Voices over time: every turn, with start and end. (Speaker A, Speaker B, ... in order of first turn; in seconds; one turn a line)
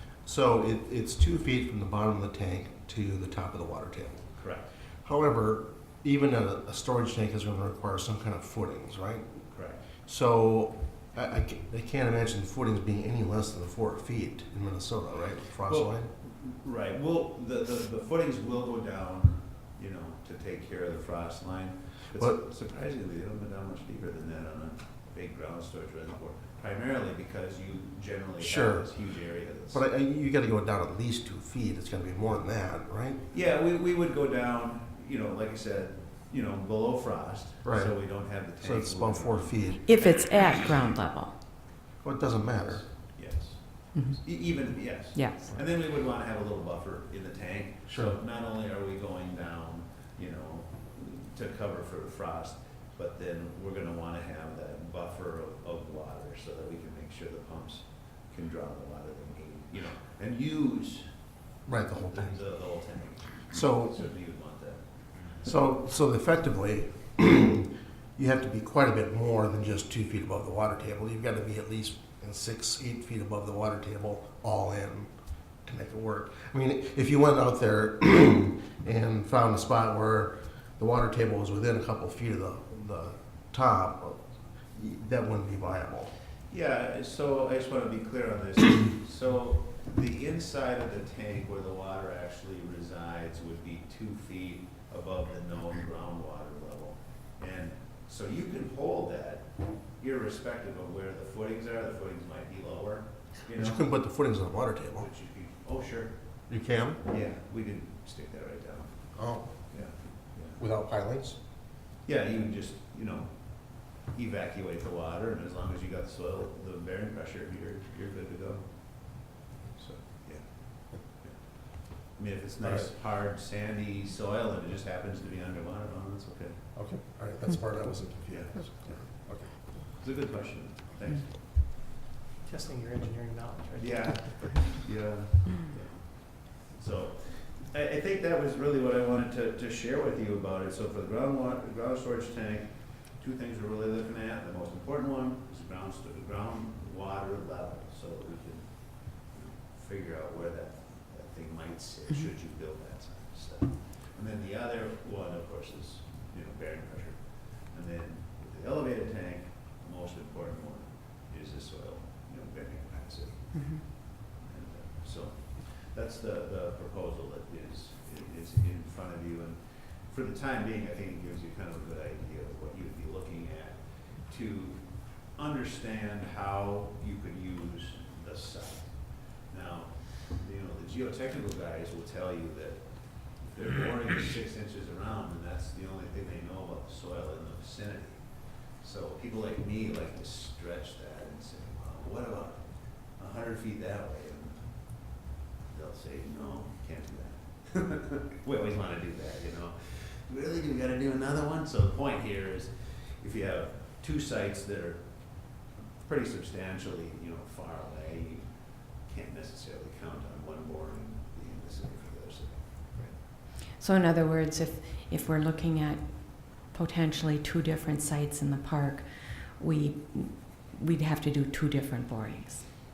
Speaker A: 0.2-4.3
Speaker B: 4.3-4.7
Speaker A: 5.0-9.5
Speaker B: 9.5-9.8
Speaker A: 10.0-16.1
Speaker B: 15.6-29.9
Speaker A: 28.4-29.0
Speaker A: 29.7-33.2
Speaker B: 33.3-40.5
Speaker A: 37.6-39.8
Speaker C: 39.8-41.4
Speaker A: 42.0-42.8
Speaker B: 42.6-61.0
Speaker C: 43.9-44.2
Speaker C: 45.1-45.5
Speaker A: 47.9-48.2
Speaker A: 61.6-62.4
Speaker B: 62.1-65.3
Speaker A: 63.5-64.1
Speaker A: 65.4-75.1
Speaker A: 75.6-86.1
Speaker B: 86.5-103.9
Speaker A: 103.5-105.1
Speaker B: 105.0-106.5
Speaker A: 106.5-107.0
Speaker B: 107.0-109.1
Speaker A: 109.1-109.5
Speaker B: 109.7-110.6
Speaker A: 110.5-111.4
Speaker B: 112.0-126.6
Speaker A: 122.6-122.9
Speaker A: 126.7-129.6
Speaker B: 128.3-131.4
Speaker D: 132.4-134.6
Speaker B: 133.8-213.1
Speaker C: 163.5-163.8
Speaker C: 213.7-222.7